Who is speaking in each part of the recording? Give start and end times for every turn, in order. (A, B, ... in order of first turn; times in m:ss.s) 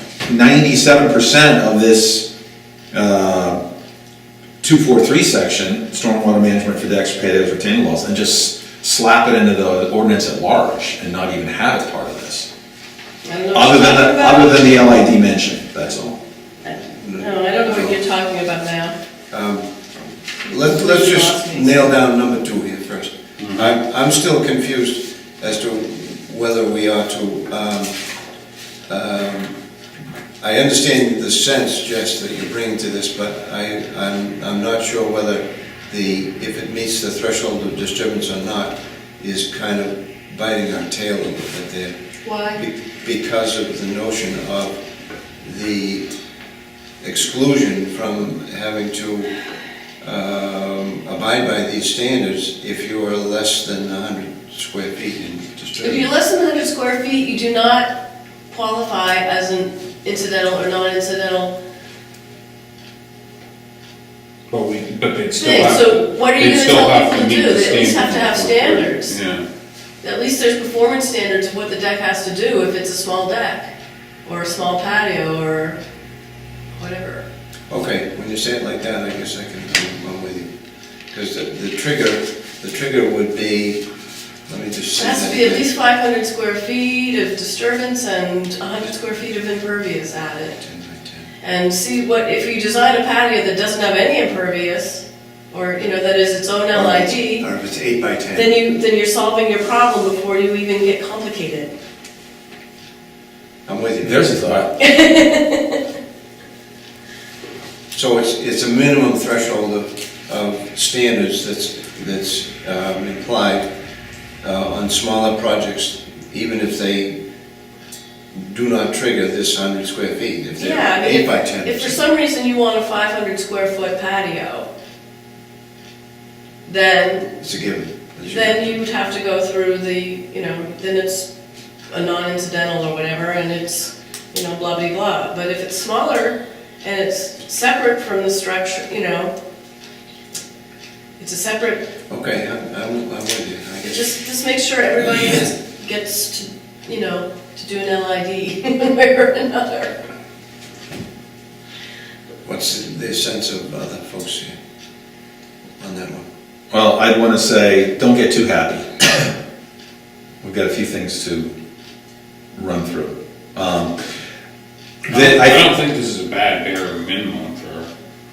0:00.2-0:02.3 A
0:02.9-0:03.6 A
0:04.6-0:12.5 A
0:13.2-0:15.0 B
0:13.5-0:16.1 A
0:16.6-0:18.9 B
0:16.9-0:18.0 C
0:19.3-0:19.7 C
0:20.4-0:22.0 B
0:20.5-0:27.9 C
0:23.4-0:23.8 D
0:28.9-0:29.5 C
0:30.4-0:41.9 C
0:42.2-0:42.6 B
0:42.6-0:44.7 C
0:45.4-0:46.1 C
0:47.0-0:49.3 C
0:50.0-0:56.1 C
0:55.8-0:58.0 B
0:58.5-1:01.5 B
1:04.5-1:09.4 D
1:05.3-1:09.2 B
1:10.0-1:13.7 B
1:14.2-1:15.8 B
1:16.8-1:17.2 B
1:17.7-1:20.5 C
1:21.1-1:23.8 C
1:24.5-1:25.7 C
1:24.9-1:30.6 B
1:30.6-1:31.2 C
1:31.4-1:37.5 B
1:36.7-1:38.5 C
1:38.3-1:41.7 B
1:43.6-1:44.3 C
1:44.0-1:44.7 A
1:44.8-1:45.8 B
1:47.9-1:53.6 C
1:54.4-1:57.2 C
1:58.3-2:02.0 C
2:00.6-2:04.7 B
2:06.6-2:07.3 B
2:07.4-2:08.7 C
2:08.3-2:11.3 B
2:11.9-2:19.3 B
2:21.2-2:21.9 B
2:22.1-2:24.1 C
2:23.8-2:29.9 B
2:32.4-2:34.5 C
2:35.8-2:36.2 C
2:36.7-2:39.3 A
2:40.4-2:41.5 A
2:42.5-2:44.0 A
2:45.1-2:47.9 D
2:45.1-2:45.7 A